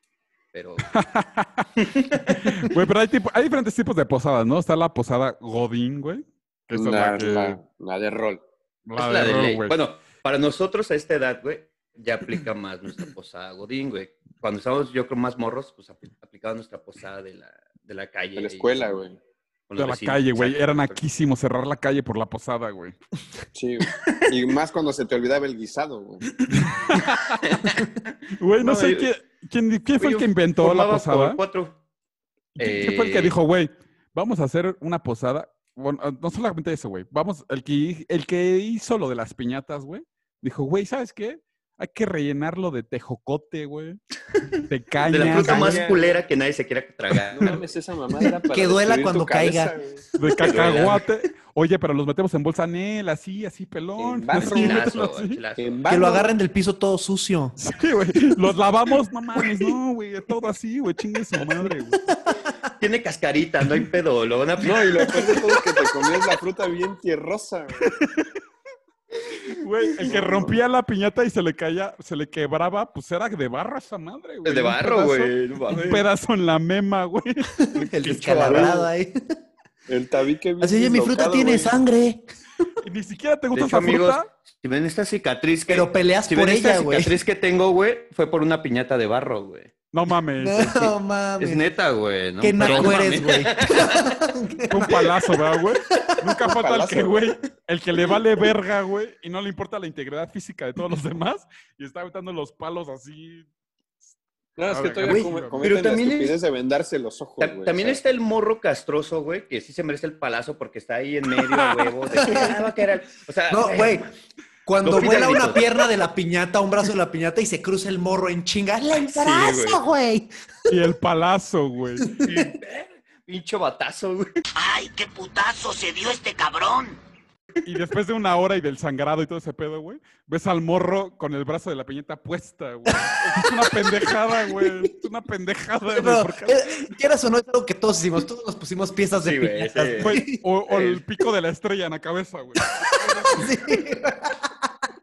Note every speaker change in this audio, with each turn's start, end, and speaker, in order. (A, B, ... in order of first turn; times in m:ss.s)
0:00.5-0:00.9 A
0:00.9-0:01.6 B
0:01.8-0:02.7 A
0:02.3-0:07.6 B
0:06.7-0:08.4 C
0:08.8-0:09.7 B
0:09.0-0:19.0 A
0:18.4-0:19.2 C
0:19.7-0:21.0 A
0:19.8-0:23.0 B
0:23.5-0:26.3 C
0:26.5-0:27.4 B
0:26.9-0:29.1 A
0:28.4-0:31.4 B
0:30.0-0:31.8 A
0:32.6-0:44.0 B
0:32.6-0:33.3 A
0:44.7-0:45.9 B
0:45.0-0:47.6 A
0:45.1-0:46.2 C
0:47.3-0:50.0 C
0:48.5-0:49.7 D
0:50.2-0:55.4 B
0:50.4-0:51.0 A
0:54.0-0:55.0 C
0:54.4-0:55.8 A
0:55.6-0:56.3 C
0:55.9-0:57.6 D
0:57.6-1:02.0 B
1:02.1-1:02.5 D
1:02.8-1:05.4 A
1:04.6-1:07.9 C
1:07.8-1:08.2 B
1:09.5-1:17.7 B
1:10.0-1:10.6 C
1:14.4-1:16.0 A
1:17.6-1:19.1 D
1:18.3-1:18.6 A
1:18.4-1:18.8 C
1:19.9-1:21.8 C
1:20.6-1:22.2 D
1:22.8-1:24.3 B
1:23.5-1:29.7 A
1:25.7-1:27.2 D
1:29.9-1:30.9 B
1:30.4-1:31.7 D
1:31.4-1:34.0 A
1:32.4-1:35.0 D
1:32.6-1:33.0 B
1:34.7-1:43.5 B
1:36.4-1:37.4 C
1:37.9-1:38.5 C
1:44.6-1:48.0 C
1:44.7-1:45.8 B
1:45.6-1:46.4 A
1:47.4-1:54.0 A
1:52.2-1:52.6 D
1:53.5-1:54.1 D
1:54.6-2:00.3 D
1:54.8-1:55.8 A
1:59.1-1:59.8 A
2:00.7-2:02.2 B
2:02.1-2:02.4 D
2:02.2-2:04.3 A
2:04.6-2:06.9 E
2:07.6-2:16.9 B
2:15.9-2:20.4 D
2:19.2-2:21.0 A
2:20.0-2:23.4 B
2:22.9-2:24.4 D